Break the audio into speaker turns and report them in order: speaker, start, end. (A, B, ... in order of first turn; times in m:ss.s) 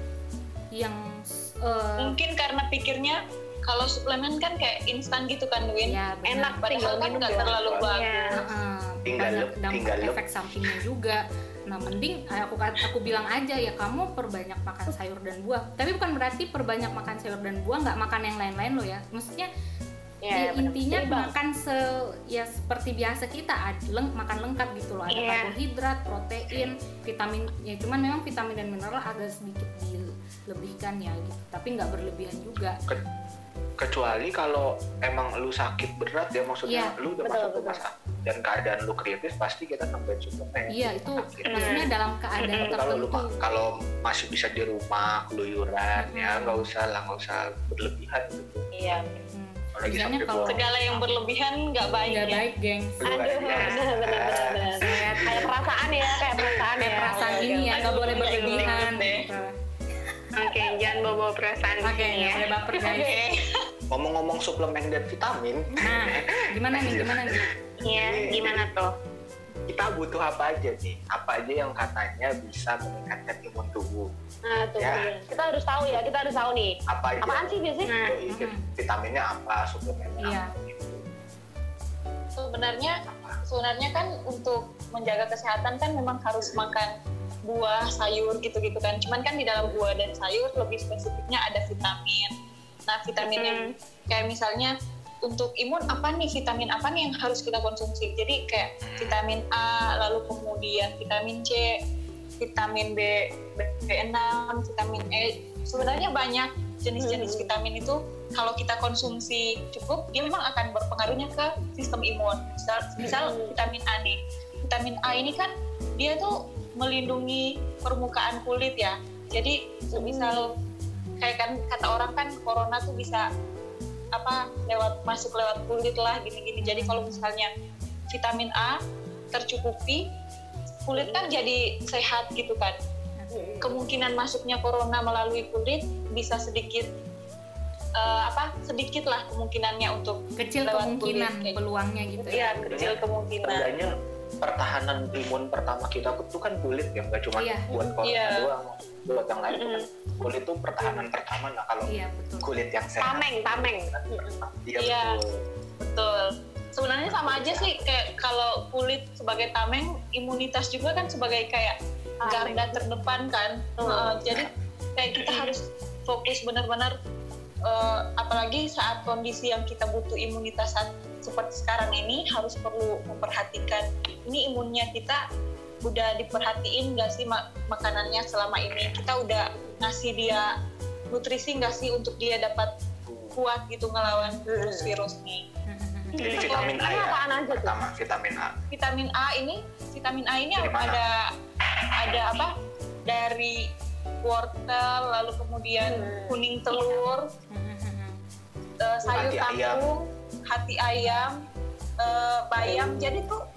0:00.7-0:02.2 A
0:02.0-0:06.0 B
0:05.8-0:07.0 A
0:06.2-0:08.2 C
0:06.6-0:08.3 B
0:07.2-0:07.9 D
0:07.8-0:08.4 E
0:08.3-0:19.5 A
0:09.0-0:10.2 D
0:20.2-0:21.3 C
0:20.3-0:32.8 A
0:25.1-0:25.5 E
0:33.8-0:41.8 D
0:36.6-0:36.9 A
0:37.2-0:37.8 C
0:40.7-0:43.3 A
0:41.5-0:41.9 E
0:42.4-0:42.7 E
0:42.6-0:48.6 D
0:46.0-0:46.6 A
0:48.7-0:49.2 C
0:49.3-0:50.7 A
0:49.7-0:51.0 D
0:50.4-0:52.4 B
0:52.1-0:53.6 A
0:53.0-0:55.5 D
0:53.0-0:58.7 C
0:54.8-0:55.4 A
0:56.8-0:59.5 A
0:56.8-0:59.3 B
1:00.3-1:02.4 E
1:01.8-1:03.1 A
1:02.8-1:03.2 C
1:02.8-1:03.4 B
1:03.9-1:08.6 D
1:05.8-1:07.4 A
1:07.8-1:08.9 E
1:09.7-1:14.1 D
1:14.4-1:17.9 C
1:14.8-1:15.1 D
1:16.9-1:21.0 D
1:17.8-1:18.2 E
1:18.3-1:18.6 A
1:20.2-1:20.5 A
1:22.4-1:26.9 B
1:23.0-1:23.4 D
1:27.4-1:32.3 B
1:32.9-1:34.7 B
1:33.2-1:33.7 E
1:35.2-1:41.8 B
1:38.8-1:39.2 D
1:42.4-2:00.5 B
1:47.0-1:47.5 C
1:53.0-1:53.5 C
1:59.9-2:00.4 C
2:01.2-2:03.2 B
2:04.1-2:07.5 B
2:06.6-2:07.3 A
2:08.1-2:08.8 B
2:09.3-2:10.0 B
2:10.8-2:12.8 B
2:10.9-2:11.3 C
2:13.2-2:13.6 A
2:13.3-2:13.8 C
2:13.6-2:16.9 B
2:18.0-2:21.6 B
2:20.4-2:22.7 A
2:22.2-2:23.7 B
2:22.4-2:22.7 C
2:22.7-2:35.4 D
2:27.4-2:27.7 A
2:27.7-2:28.0 C
2:28.0-2:28.5 B
2:30.8-2:31.1 C
2:31.9-2:32.5 A
2:33.0-2:34.4 C
2:34.8-2:35.2 B
2:35.8-2:46.9 B
2:37.0-2:37.9 D
2:42.2-2:42.8 C
2:43.8-2:44.2 C
2:47.6-2:55.2 B
2:55.8-3:00.5 B
3:01.1-3:02.7 B
3:03.0-3:03.4 D
3:03.3-3:05.4 B
3:04.0-3:04.4 A
3:04.5-3:04.9 C
3:05.7-3:06.4 A
3:06.2-3:08.5 D
3:06.2-3:07.7 C
3:06.3-3:06.8 B
3:08.7-3:11.2 B
3:10.6-3:11.0 D
3:12.0-3:12.5 B
3:13.0-3:13.6 B
3:14.2-3:17.3 B
3:15.8-3:16.4 C
3:17.5-3:18.2 A
3:18.8-3:21.3 B
3:19.1-3:19.8 D
3:22.0-3:23.4 B
3:22.6-3:23.3 C